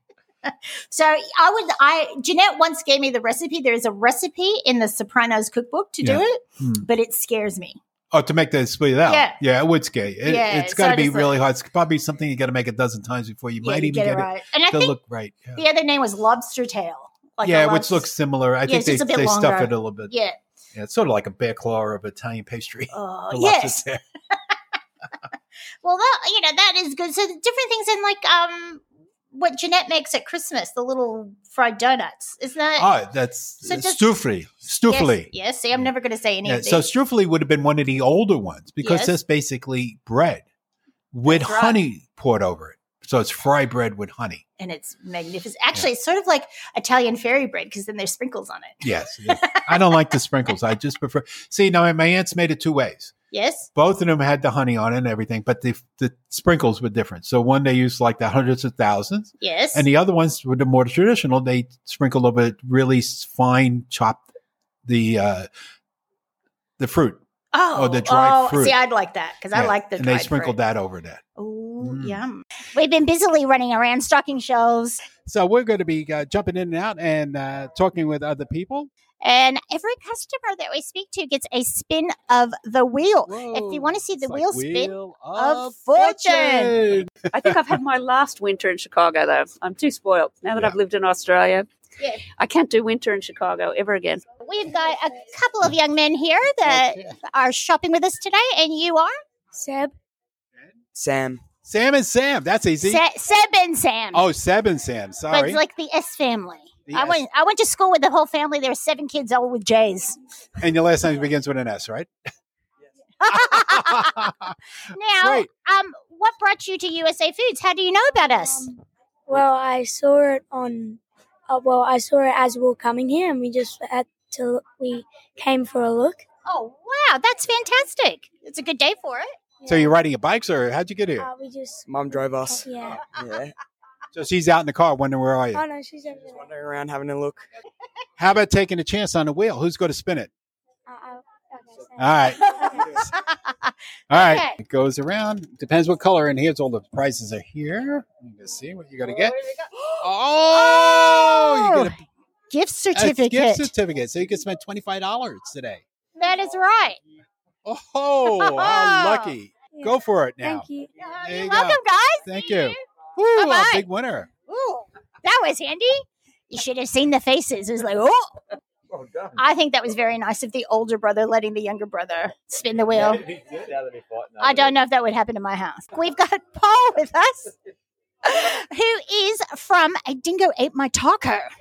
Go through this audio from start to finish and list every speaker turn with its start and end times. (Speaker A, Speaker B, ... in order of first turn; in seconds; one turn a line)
Speaker A: 0.4-7.8
Speaker B: 6.0-6.8
Speaker B: 8.1-15.6
Speaker A: 9.1-9.4
Speaker A: 10.2-11.3
Speaker A: 13.6-14.9
Speaker A: 15.5-18.1
Speaker B: 17.4-20.1
Speaker A: 18.6-20.4
Speaker B: 20.7-24.0
Speaker A: 22.9-23.8
Speaker A: 25.8-32.9
Speaker B: 32.8-35.3
Speaker A: 33.6-34.1
Speaker A: 34.9-36.9
Speaker B: 36.4-40.4
Speaker A: 38.8-39.2
Speaker B: 41.1-44.4
Speaker A: 41.2-41.8
Speaker A: 44.6-50.0
Speaker B: 48.8-53.1
Speaker A: 53.3-53.7
Speaker B: 53.7-64.2
Speaker A: 59.4-59.9
Speaker B: 64.8-65.5
Speaker B: 66.8-67.2
Speaker A: 67.5-70.6
Speaker B: 67.7-68.8
Speaker B: 69.5-71.2
Speaker A: 71.4-75.0
Speaker B: 71.8-72.2
Speaker B: 75.2-78.9
Speaker A: 79.2-86.8
Speaker B: 83.2-87.3
Speaker C: 87.3-91.7
Speaker C: 92.4-94.2
Speaker A: 94.4-99.1
Speaker B: 96.6-97.1
Speaker D: 99.5-99.9
Speaker E: 100.9-101.4
Speaker B: 101.6-103.0
Speaker A: 102.8-104.2
Speaker B: 104.1-105.6
Speaker A: 105.3-110.2
Speaker B: 106.9-107.2
Speaker B: 110.6-112.1
Speaker A: 113.2-114.3
Speaker B: 113.3-114.5
Speaker A: 114.9-118.7
Speaker B: 115.2-115.5
Speaker D: 118.2-118.8
Speaker D: 119.3-126.2
Speaker A: 126.5-129.3
Speaker D: 129.6-129.9
Speaker B: 129.7-131.3
Speaker D: 131.2-133.1
Speaker E: 131.9-133.5
Speaker B: 134.1-135.6
Speaker D: 135.5-136.5
Speaker E: 136.4-137.5
Speaker B: 138.2-140.3
Speaker D: 140.9-142.8
Speaker B: 142.0-142.4
Speaker A: 143.0-144.5
Speaker B: 144.1-149.3
Speaker B: 150.0-152.0
Speaker A: 150.5-151.9
Speaker A: 152.5-153.7
Speaker B: 152.9-155.8
Speaker A: 156.2-157.0
Speaker B: 157.6-160.7
Speaker A: 158.3-159.3
Speaker D: 159.8-160.9
Speaker A: 161.0-162.8
Speaker B: 161.2-164.3
Speaker A: 163.3-163.8
Speaker A: 164.5-168.4
Speaker A: 169.3-173.3
Speaker A: 174.3-177.5
Speaker A: 178.2-181.5